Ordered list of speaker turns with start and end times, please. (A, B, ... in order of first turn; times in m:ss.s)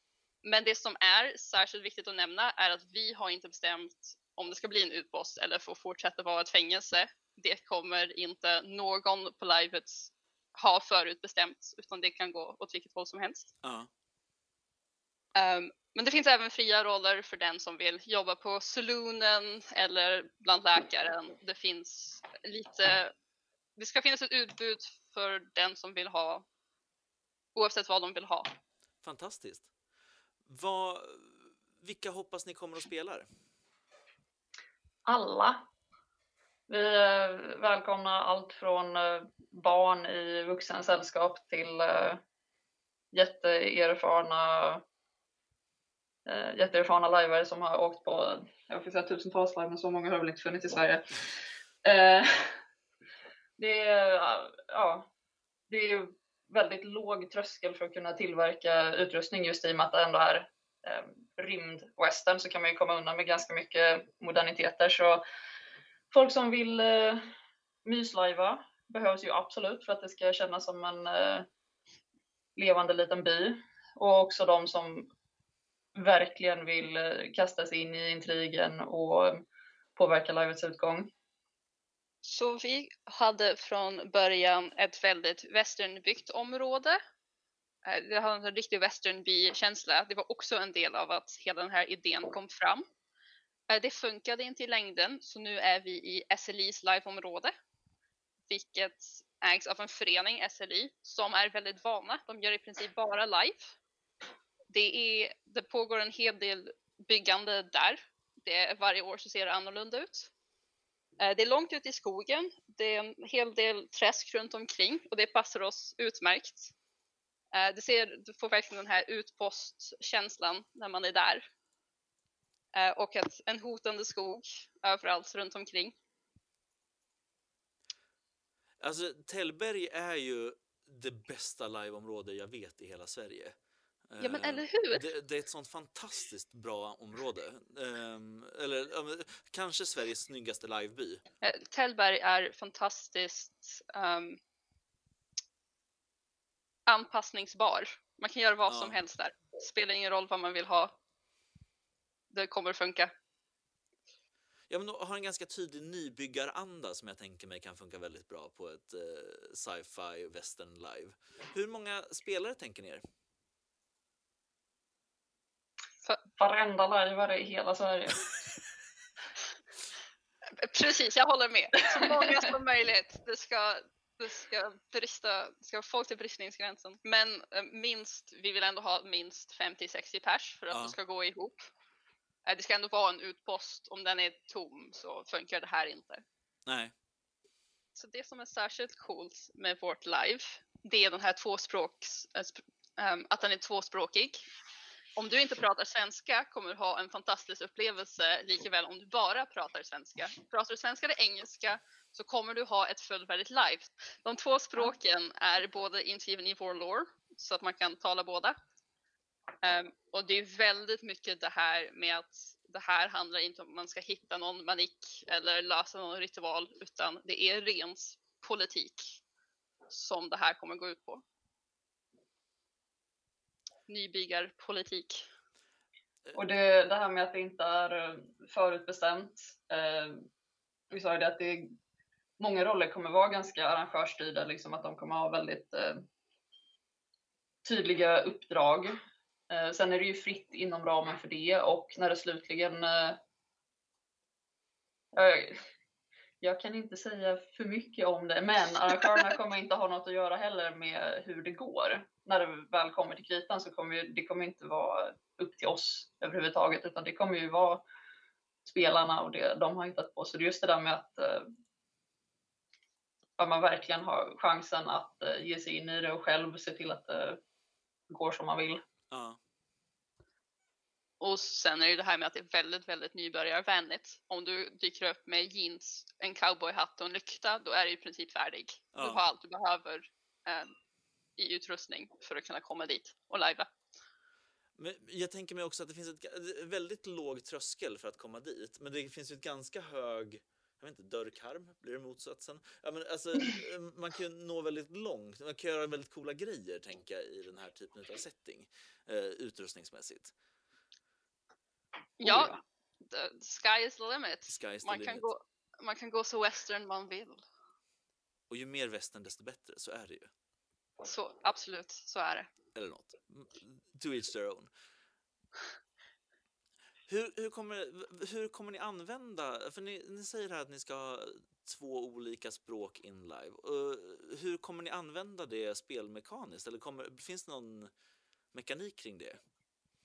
0:00.4-0:13.5 A
0:13.6-0:13.9 B
0:15.3-0:23.1 A
0:23.8-0:26.4 A
0:27.5-0:28.5 A
0:29.0-0:29.7 B
0:30.4-0:33.3 B
0:35.0-0:35.6 C
0:36.7-0:42.2 C
0:43.1-0:44.8 C
0:46.2-0:51.2 C
0:51.8-0:52.6 C
0:53.6-0:55.1 C
0:55.7-1:05.2 C
1:06.1-1:07.2 C
1:07.8-1:11.5 C
1:12.6-1:15.1 C
1:16.0-1:19.4 C
1:20.0-1:21.1 C
1:22.2-1:27.0 A
1:27.8-1:32.9 A
1:33.7-1:37.5 A
1:38.5-1:43.7 A
1:44.7-1:50.3 A
1:51.2-1:56.7 A
1:57.5-2:01.5 A
2:02.7-2:05.9 A
2:08.8-2:13.6 B
2:14.1-2:21.2 B
2:14.2-2:15.0 A
2:21.4-2:24.4 A
2:26.9-2:30.9 A
2:28.7-2:29.0 B
2:32.3-2:33.1 A
2:34.7-2:43.0 B
2:46.4-2:48.2 C
2:50.6-3:01.7 A
2:51.9-2:52.5 C
3:02.4-3:06.2 A
3:06.7-3:06.9 B
3:08.0-3:14.4 A
3:15.2-3:28.6 A
3:29.6-3:39.2 A
3:39.9-3:41.2 A
3:43.9-3:45.2 A
3:46.3-3:50.2 C
3:50.9-3:51.7 C
3:52.4-3:56.0 C
3:57.6-3:59.0 C
3:59.5-4:03.2 C
4:05.1-4:05.6 C
4:06.4-4:17.8 C
4:18.6-4:21.5 C
4:23.4-4:27.4 C
4:28.1-4:28.8 C
4:29.1-4:29.4 B
4:31.2-4:40.7 A
4:38.9-4:39.2 B
4:41.4-4:43.7 A
4:44.8-5:00.3 B
5:02.2-5:02.6 C
5:02.2-5:07.4 A
5:04.5-5:05.3 B
5:08.5-5:10.3 B
5:11.0-5:12.5 A
5:12.8-5:14.7 B
5:17.1-5:27.9 B
5:28.5-5:29.4 B